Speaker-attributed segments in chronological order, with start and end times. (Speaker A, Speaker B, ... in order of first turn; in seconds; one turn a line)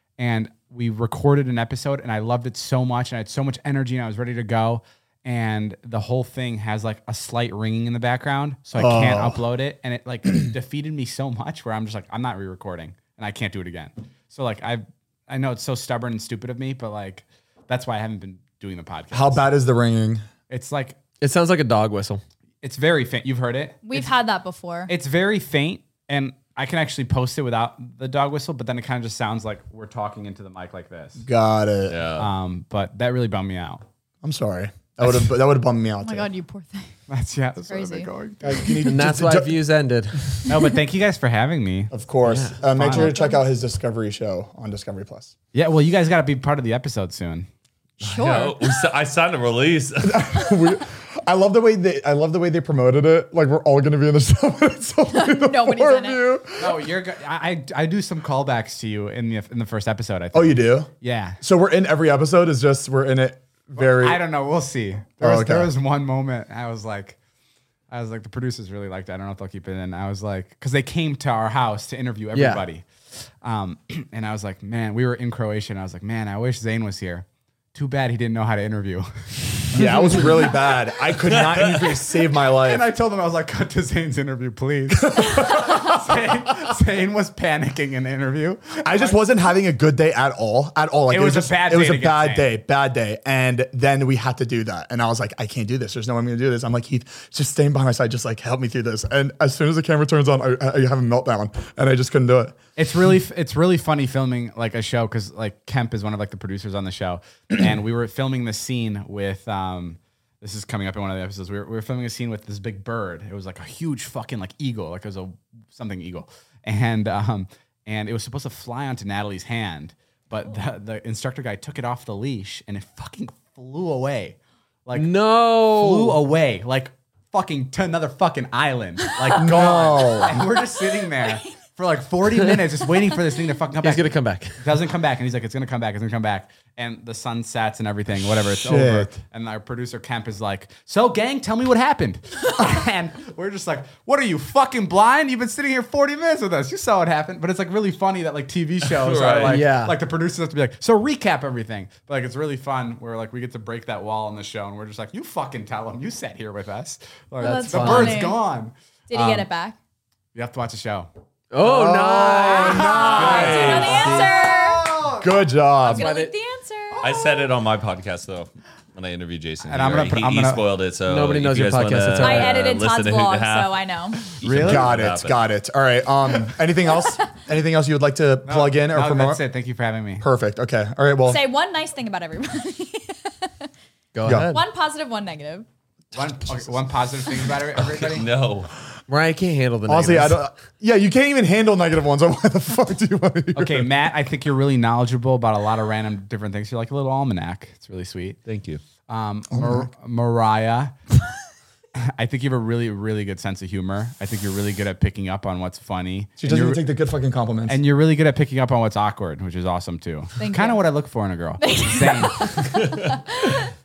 Speaker A: 0.2-19.5
Speaker B: 8.8-9.4
Speaker B: 19.1-20.2
Speaker A: 20.5-21.0
Speaker C: 21.2-22.2
Speaker A: 22.6-24.1
Speaker D: 23.8-24.9
Speaker A: 24.9-31.2
Speaker B: 31.2-32.0
Speaker E: 31.9-32.3
Speaker A: 32.2-33.8
Speaker B: 34.2-36.3
Speaker A: 35.0-35.3
Speaker D: 36.0-36.9
Speaker A: 37.1-38.9
Speaker D: 37.7-38.1
Speaker B: 38.4-39.6
Speaker C: 38.9-40.4
Speaker A: 40.5-41.9
Speaker B: 41.9-45.3
Speaker C: 42.2-43.0
Speaker A: 42.7-43.1
Speaker A: 45.5-47.5
Speaker D: 48.0-48.7
Speaker E: 48.0-50.3
Speaker B: 50.0-56.8
Speaker D: 55.1-56.3
Speaker A: 56.6-61.4
Speaker B: 60.3-60.9
Speaker B: 61.4-64.2
Speaker A: 63.8-67.2
Speaker B: 65.2-65.7
Speaker A: 67.9-79.8
Speaker C: 72.3-72.6
Speaker B: 79.7-82.8
Speaker C: 79.8-80.5
Speaker E: 81.2-82.0
Speaker A: 82.5-89.2
Speaker B: 85.0-86.6
Speaker B: 88.8-102.6
Speaker A: 91.1-92.5
Speaker A: 102.8-159.5
Speaker C: 124.9-126.2
Speaker D: 129.0-131.6
Speaker B: 129.4-130.3
Speaker C: 133.8-134.6
Speaker B: 138.5-139.2
Speaker E: 148.8-149.7
Speaker C: 149.4-149.9
Speaker D: 157.4-158.4
Speaker C: 157.4-158.3
Speaker D: 159.1-159.8
Speaker A: 160.3-161.1
Speaker C: 161.5-164.4
Speaker B: 161.6-163.9
Speaker A: 162.4-165.3
Speaker D: 163.0-164.9
Speaker E: 163.2-164.0
Speaker B: 165.2-166.1
Speaker D: 165.8-167.3
Speaker C: 165.9-166.3
Speaker E: 167.0-175.4
Speaker A: 169.6-170.6
Speaker C: 171.1-172.6
Speaker D: 172.2-174.3
Speaker A: 174.4-175.0
Speaker B: 174.6-179.4
Speaker D: 176.9-177.2
Speaker A: 178.4-180.2
Speaker B: 180.2-181.4
Speaker D: 181.2-183.7
Speaker C: 184.1-184.6
Speaker B: 184.2-184.5
Speaker D: 184.5-185.7
Speaker A: 186.1-188.3
Speaker E: 187.8-188.7
Speaker C: 189.1-190.4
Speaker B: 189.9-193.9
Speaker A: 193.5-198.4
Speaker E: 198.4-198.8
Speaker A: 199.1-201.0
Speaker B: 199.5-199.9
Speaker A: 202.0-206.8
Speaker B: 206.4-207.8
Speaker A: 207.7-212.7
Speaker D: 210.4-210.8
Speaker D: 211.6-213.7